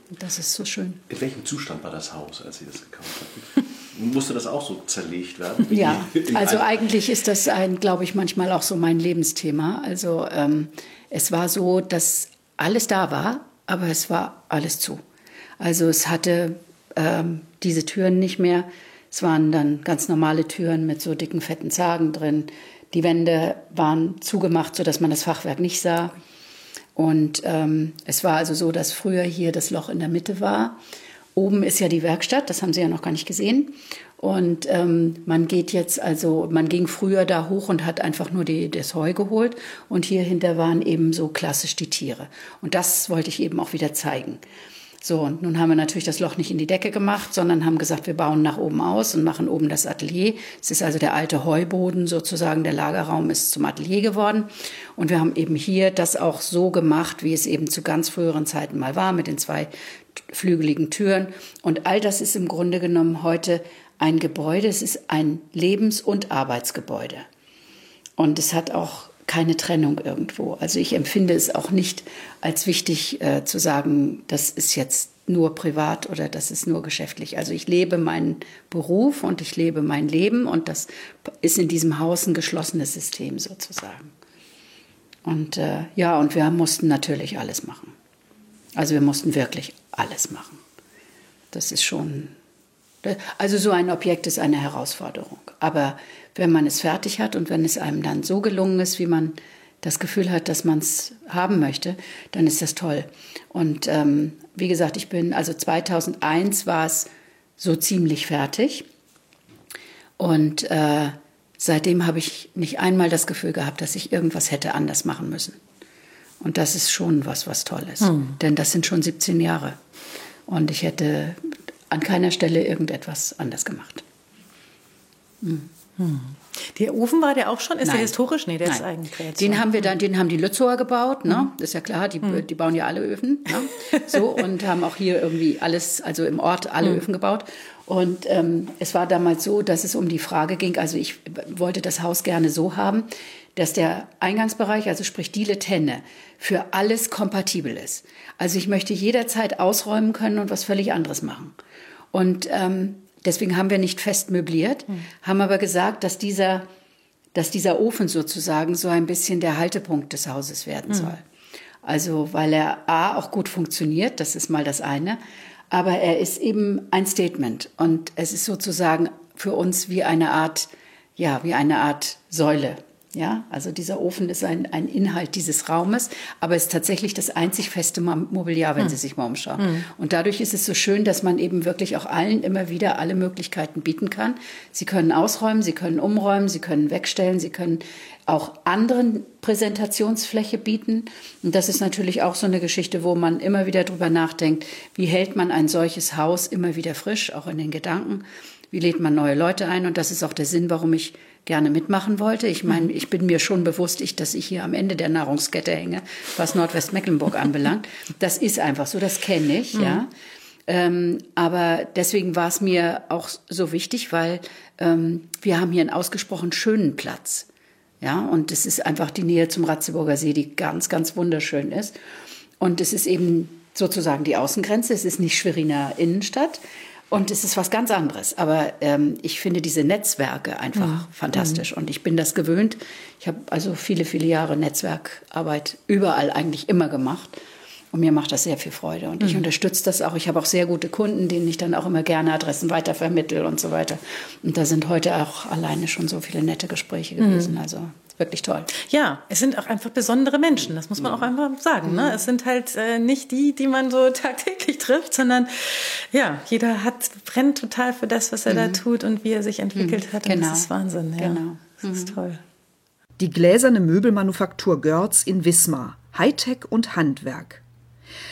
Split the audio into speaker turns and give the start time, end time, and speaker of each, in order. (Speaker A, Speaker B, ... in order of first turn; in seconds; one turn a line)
Speaker A: 0.1-1.0
Speaker B: 1.1-7.0
Speaker A: 5.7-15.0
Speaker A: 15.6-26.1
Speaker A: 26.9-30.8
Speaker A: 31.4-44.4
Speaker A: 45.0-59.7
Speaker A: 60.3-67.2
Speaker A: 68.2-84.1
Speaker A: 85.2-87.9
Speaker A: 88.8-90.6
Speaker A: 91.5-92.3
Speaker A: 93.0-108.8
Speaker A: 110.2-115.6
Speaker A: 116.4-119.8
Speaker C: 118.0-118.3
Speaker A: 120.5-121.4
Speaker A: 121.9-124.0
Speaker A: 125.4-125.7
Speaker C: 126.0-129.9
Speaker A: 127.8-128.1
Speaker A: 129.4-151.6
Speaker A: 152.1-156.7
Speaker A: 157.3-161.2
Speaker A: 161.8-210.1
Speaker C: 179.6-179.9
Speaker C: 209.8-210.0
Speaker A: 210.7-217.5
Speaker A: 218.0-222.0
Speaker A: 222.6-237.4
Speaker C: 230.8-231.6
Speaker A: 237.9-248.7
Speaker C: 247.2-247.6
Speaker C: 248.8-262.4
Speaker A: 251.8-252.2
Speaker A: 258.5-258.8
Speaker A: 259.8-262.1
Speaker D: 263.2-267.6